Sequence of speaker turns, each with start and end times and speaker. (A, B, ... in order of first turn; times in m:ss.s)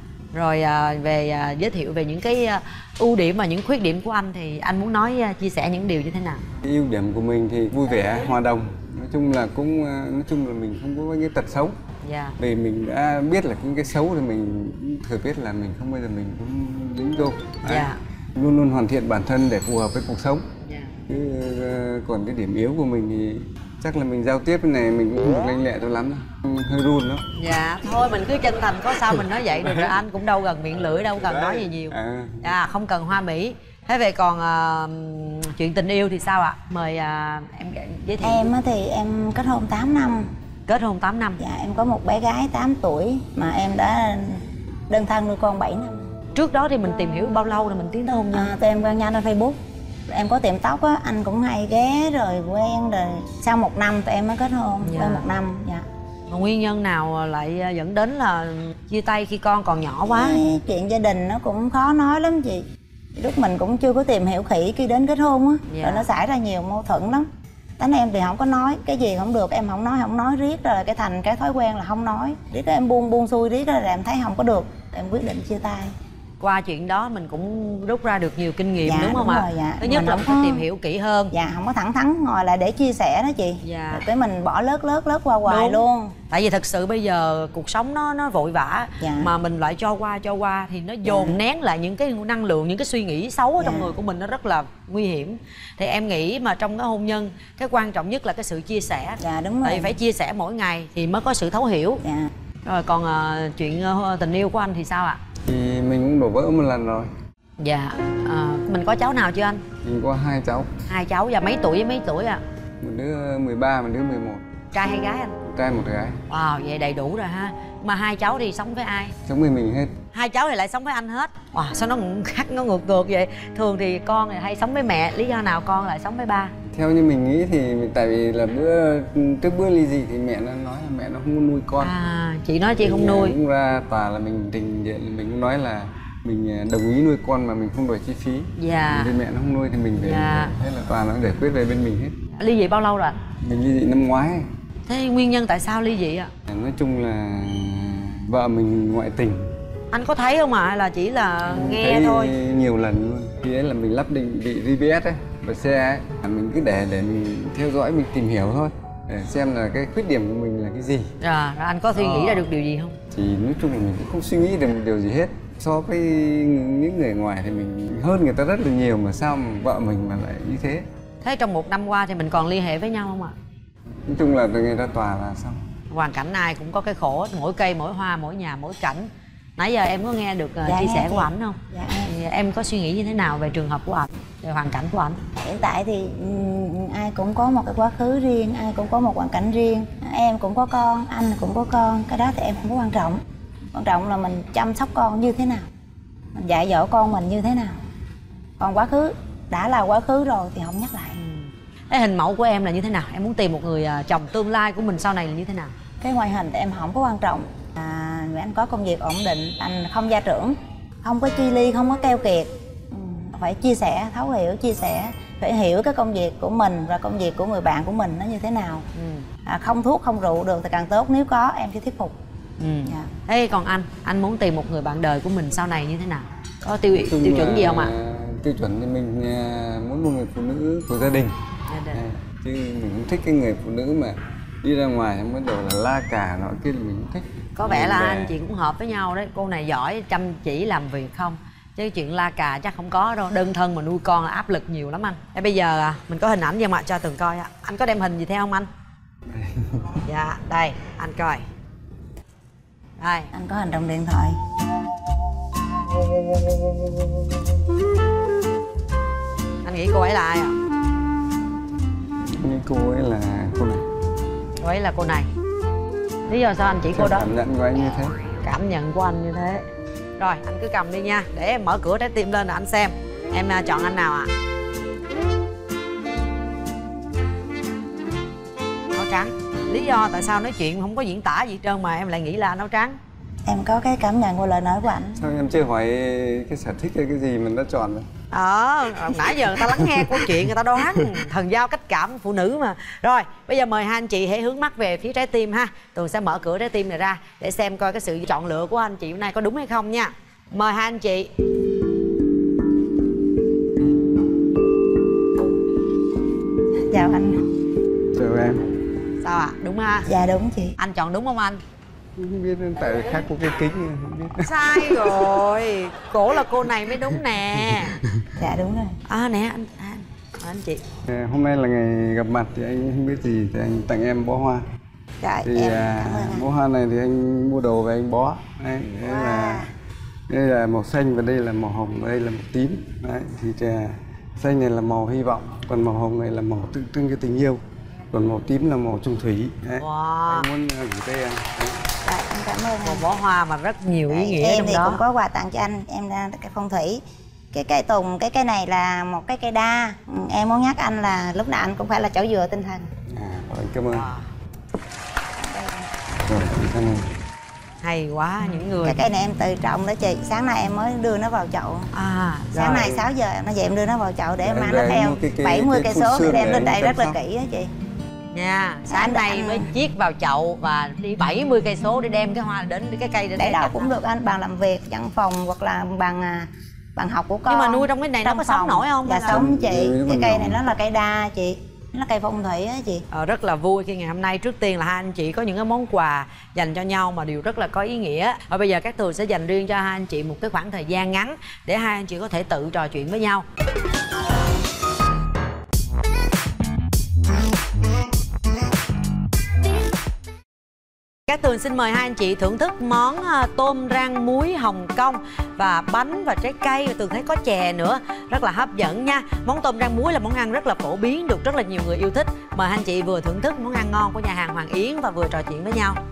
0:00.3-0:06.4 A
0:06.6-0:11.7 B
0:12.0-0:12.4 A
0:12.4-0:20.4 B
0:17.7-0:18.0 A
0:20.6-0:20.9 A
0:21.1-0:27.2 B
0:27.4-0:38.5 A
0:29.0-0:30.0 B
0:30.8-0:32.6 B
0:38.2-0:40.3 C
0:40.7-0:41.4 A
0:41.4-0:46.0 C
0:46.3-0:48.5 A
0:48.3-0:49.6 C
0:50.1-0:55.8 C
0:54.8-0:55.2 A
0:56.3-1:00.5 A
1:00.0-1:02.6 C
1:03.2-1:07.3 C
1:05.7-1:06.1 A
1:07.8-1:15.9 C
1:16.4-1:21.3 A
1:18.8-1:20.6 C
1:21.3-1:26.1 C
1:23.6-1:24.0 A
1:25.4-1:42.0 A
1:29.0-1:29.3 C
1:31.0-1:31.4 C
1:33.6-1:33.9 C
1:39.2-1:40.0 C
1:42.0-1:42.3 C
1:42.6-1:45.2 A
1:45.4-1:47.1 B
1:47.6-1:49.6 A
1:49.8-1:50.7 B
1:50.9-1:52.4 A
1:52.8-1:54.5 B
1:54.7-1:55.4 A
1:55.4-1:56.2 B
1:56.3-1:59.2 A
1:59.2-1:59.9 B
2:00.1-2:06.5 A
2:06.7-2:11.9 B
2:11.8-2:13.4 A
2:12.8-2:22.2 B
2:18.6-2:19.2 A
2:19.9-2:20.5 A
2:22.4-2:23.2 A
2:23.4-2:24.4 B
2:24.9-2:26.3 A
2:26.5-2:29.5 B
2:29.9-2:32.3 A
2:31.4-2:41.1 B
2:41.2-2:43.0 A
2:41.9-2:42.4 B
2:43.1-2:50.9 B
2:51.2-2:53.3 A
2:54.1-2:55.6 B
2:55.9-3:05.2 A
3:00.6-3:02.1 C
3:05.4-3:13.2 C
3:13.7-3:15.7 C
3:16.4-3:17.8 C
3:18.6-3:21.2 C
3:21.2-3:25.7 A
3:26.0-3:38.8 C
3:38.9-3:39.3 A
3:39.4-3:42.1 C
3:42.6-3:47.9 A
3:46.9-3:51.3 B
3:51.7-3:52.0 A
3:51.9-3:58.4 B
3:57.6-4:08.7 A
4:09.3-4:10.0 B
4:10.0-4:11.4 A
4:13.0-4:13.3 A
4:13.3-4:14.4 C
4:19.6-4:20.5 A
4:22.2-4:23.8 B
4:24.6-4:25.3 A
4:26.3-4:27.3 A
4:26.8-4:28.1 B
4:28.4-4:29.6 A
4:30.2-4:34.3 A
4:38.9-4:43.0 A
4:43.4-4:45.2 C
4:45.2-4:48.1 B
4:48.3-5:01.3 A
4:49.0-4:51.2 B
5:06.9-5:07.4 C
5:08.1-5:08.6 B
5:09.2-5:10.1 A
5:10.1-5:10.8 C
5:10.8-5:11.6 A
5:12.2-5:15.3 B
5:14.4-5:18.0 A
5:16.7-5:18.3 B
5:18.4-5:19.0 C
5:19.1-5:20.8 A
5:21.1-5:24.6 B
5:25.2-5:26.5 C
5:25.4-5:29.7 B
5:29.0-5:29.7 C
5:30.3-5:41.8 B
5:39.8-5:40.5 A
5:42.0-5:43.1 C
5:42.8-5:45.0 A
5:44.1-5:47.0 C
5:47.5-5:52.9 C
5:53.1-5:54.1 B
5:53.9-5:54.3 A
5:55.4-5:55.9 C
5:56.2-5:57.1 B
5:57.8-5:59.0 A
5:58.8-6:01.9 C
6:01.9-6:03.0 A
6:02.5-6:07.7 C
6:04.4-6:07.2 B
6:08.3-6:13.9 A
6:08.9-6:09.7 C
6:13.4-6:23.0 C
6:17.5-6:19.4 A
6:19.3-6:20.6 B
6:23.1-6:33.4 A
6:41.3-6:56.0 A